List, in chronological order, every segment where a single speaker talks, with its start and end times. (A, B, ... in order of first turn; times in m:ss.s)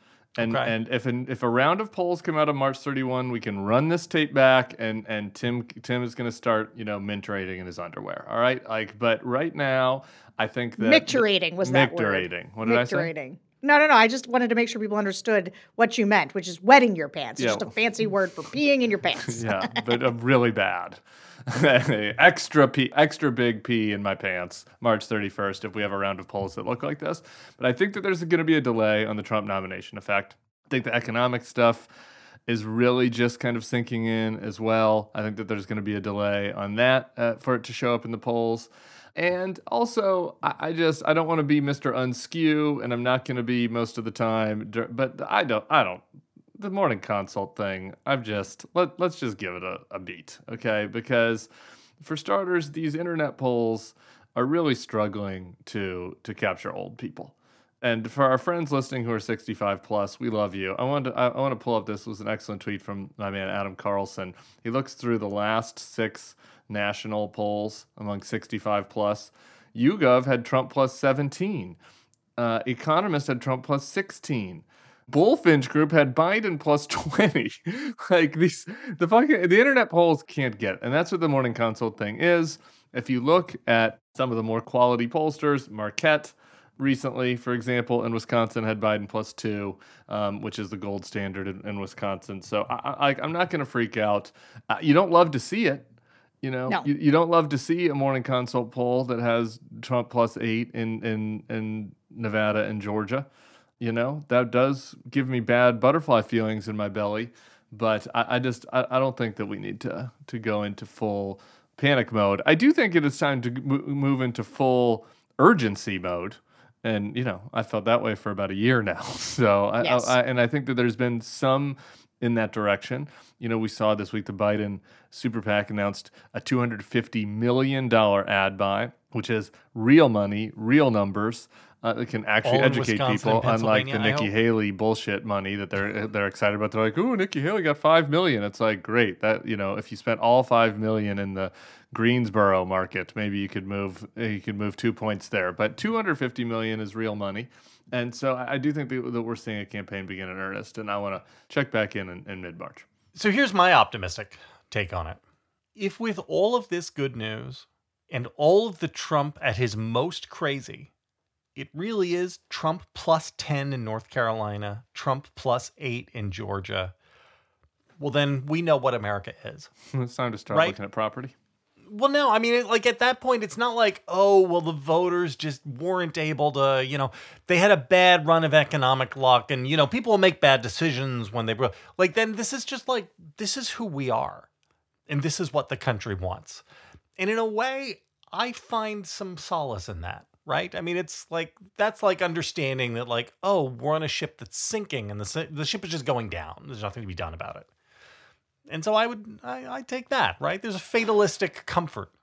0:00.4-0:13.1 A
0:00.4-0:00.7 B
0:10.8-0:19.8 C
0:17.4-0:17.7 A
0:19.3-0:31.9 A
0:32.5-0:46.0 A
0:46.6-0:51.5 A
0:52.0-1:11.8 A
1:12.4-1:35.8 A
1:36.4-1:43.3 A
1:43.8-2:32.8 A
1:59.8-2:00.2 C
2:12.4-2:14.3 B
2:33.1-2:35.2 B
2:35.8-2:40.9 B
2:41.5-2:46.9 B
2:48.0-2:49.7 B
2:49.9-2:51.3 A
2:50.5-2:50.8 B
2:51.9-3:04.5 B
3:05.1-3:06.6 B
3:07.2-3:17.7 B
3:18.7-3:22.1 B